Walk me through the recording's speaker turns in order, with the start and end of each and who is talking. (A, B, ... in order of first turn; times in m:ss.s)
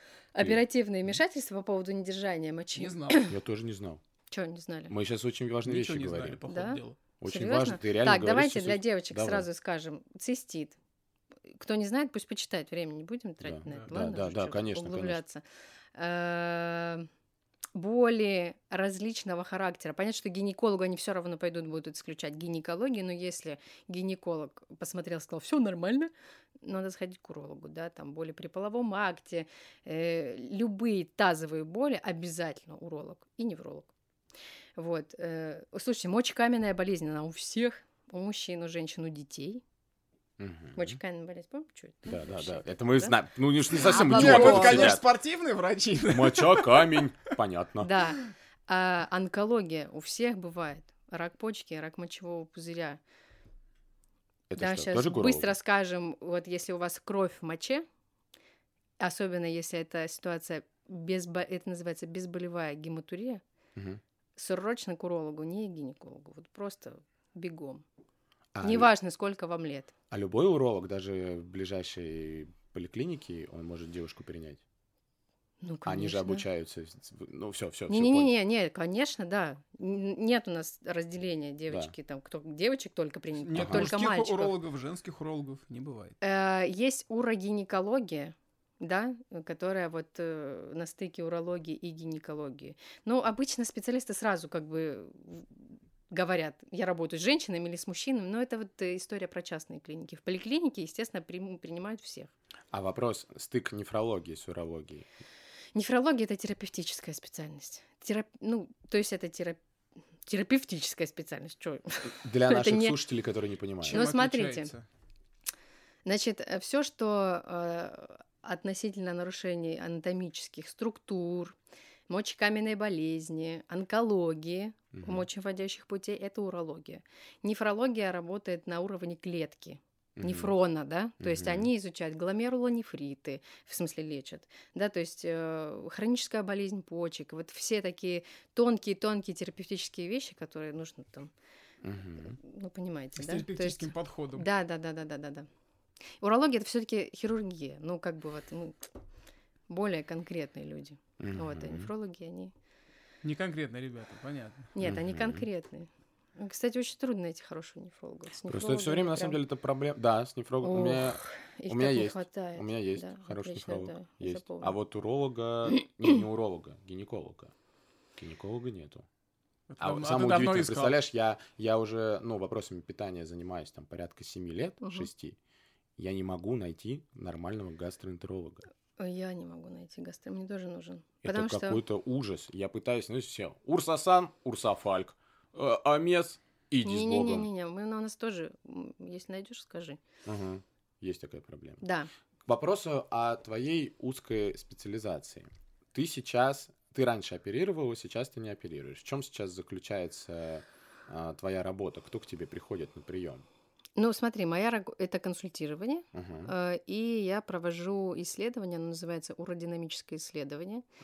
0:00.4-0:03.4 A
0:02.8-0:03.3 B
0:03.3-0:04.0 C
0:04.3-0:04.9 A
0:04.9-0:06.4 C
0:05.6-0:07.0 B
0:06.5-0:10.8 A
0:07.2-0:09.5 C
0:11.5-0:15.4 A
0:13.4-0:15.2 C
0:16.0-0:17.1 A
0:17.8-0:33.9 A
0:34.8-0:39.6 A
0:40.4-0:41.0 C
0:40.8-0:43.2 A
0:42.1-0:45.0 C
0:43.7-0:45.0 A
0:43.8-0:47.2 B
0:46.1-0:47.9 C
0:47.8-0:53.0 A
0:54.5-0:55.5 C
0:54.6-0:57.8 A
0:59.0-1:03.4 A
1:03.8-1:04.0 C
1:04.4-1:07.8 A
1:08.5-1:08.9 C
1:08.6-1:09.9 A
1:10.1-1:14.6 C
1:15.6-1:16.4 A
1:15.9-1:18.3 C
1:17.9-1:24.6 A
1:23.4-1:26.2 B
1:23.6-1:23.9 C
1:26.2-1:42.3 A
1:42.7-1:45.1 C
1:45.8-1:49.6 A
1:50.3-1:53.0 A
1:52.1-1:54.0 C
1:53.8-1:54.8 B
1:53.9-1:54.7 A
1:56.1-2:01.6 A
2:02.1-2:21.3 A
2:04.9-2:05.3 C
2:10.2-2:10.5 C
2:11.2-2:11.7 C
2:21.8-2:22.4 C
2:22.2-2:25.5 A
2:23.2-2:24.5 B
2:26.2-2:28.8 A
2:29.7-2:32.5 A
2:31.2-2:31.9 C
2:33.2-2:34.7 B
2:34.8-2:39.4 A
2:34.8-2:35.5 C
2:38.5-2:47.5 C
2:40.6-2:44.8 A
2:48.2-2:49.1 C
2:49.7-2:51.0 B
2:49.8-2:55.4 C
2:54.8-2:55.1 A
2:56.0-2:58.6 C
2:59.0-3:01.8 A
3:01.2-3:07.5 C
3:06.8-3:10.0 A
3:10.3-3:11.8 C
3:11.8-3:12.1 A
3:12.5-3:23.4 C
3:24.0-3:30.8 A
3:26.1-3:26.5 C